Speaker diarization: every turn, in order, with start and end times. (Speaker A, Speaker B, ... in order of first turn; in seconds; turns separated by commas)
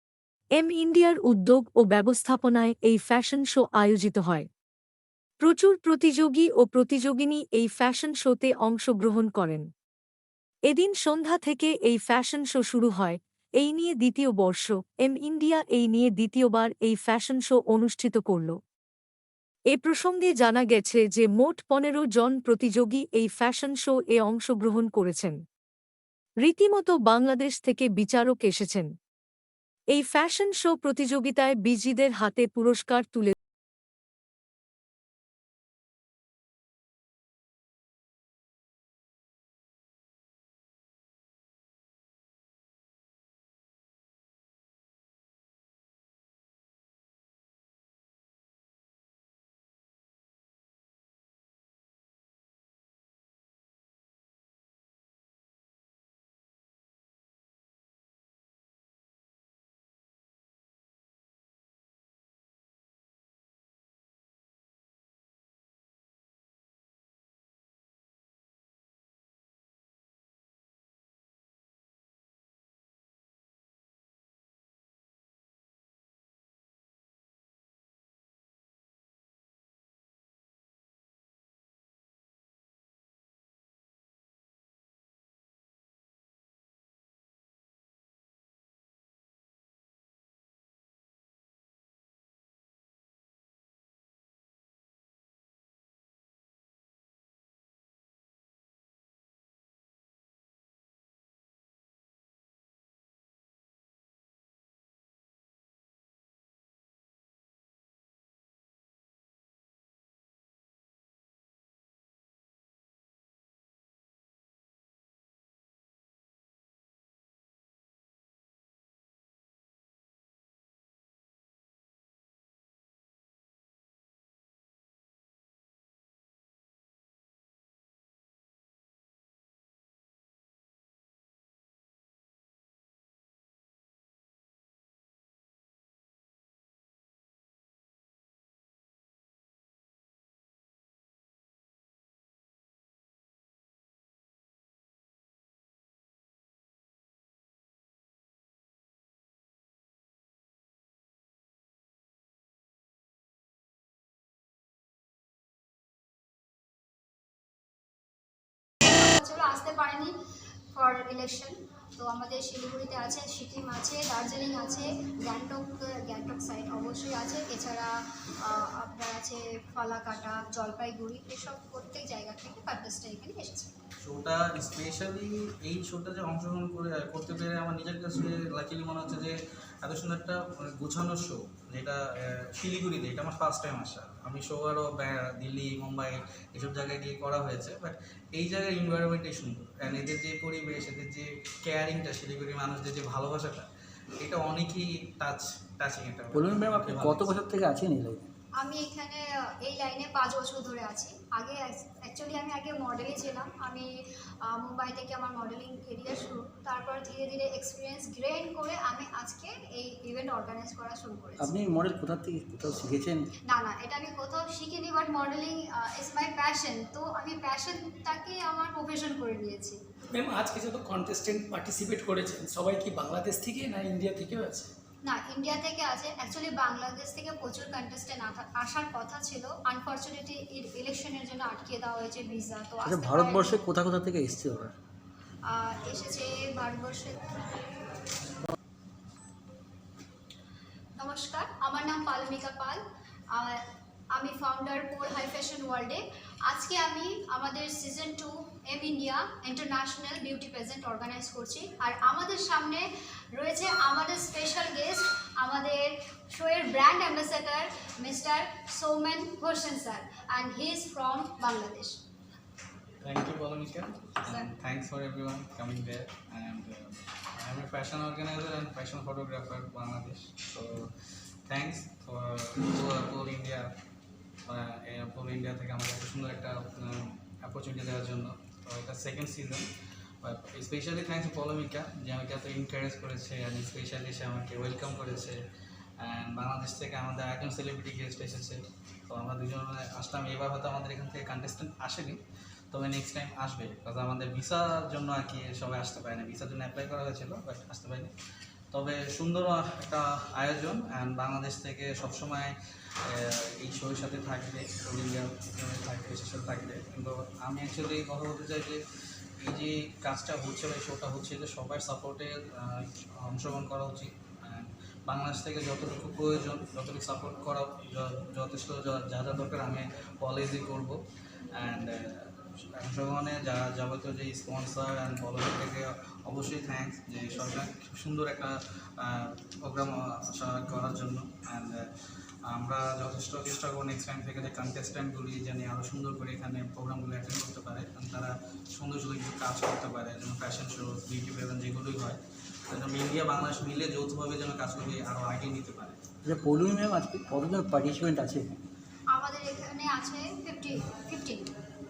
Speaker A: 0.5-4.5, Speaker A: 5.4-9.7, Speaker A: 10.7-18.6, Speaker A: 19.7-25.4, Speaker A: 26.4-28.9, Speaker A: 29.9-33.3, Speaker B: 158.8-160.1, Speaker B: 160.7-173.7, Speaker C: 174.0-193.7, Speaker C: 194.2-197.4, Speaker D: 196.3-198.2, Speaker B: 198.6-203.9, Speaker B: 204.4-211.5, Speaker D: 211.4-213.3, Speaker B: 213.5-219.8, Speaker E: 220.1-224.7, Speaker B: 225.0-233.6, Speaker D: 232.8-234.7, Speaker B: 235.4-237.4, Speaker B: 241.0-262.0, Speaker C: 263.0-270.9, Speaker B: 264.2-264.5, Speaker C: 271.5-273.7, Speaker C: 274.5-279.7, Speaker C: 280.2-285.4, Speaker C: 286.0-292.2, Speaker C: 292.7-298.1, Speaker C: 298.7-302.5, Speaker C: 303.1-308.8, Speaker C: 309.4-321.0, Speaker C: 321.5-331.8, Speaker C: 332.5-346.0, Speaker D: 346.2-348.6, Speaker B: 349.1-351.5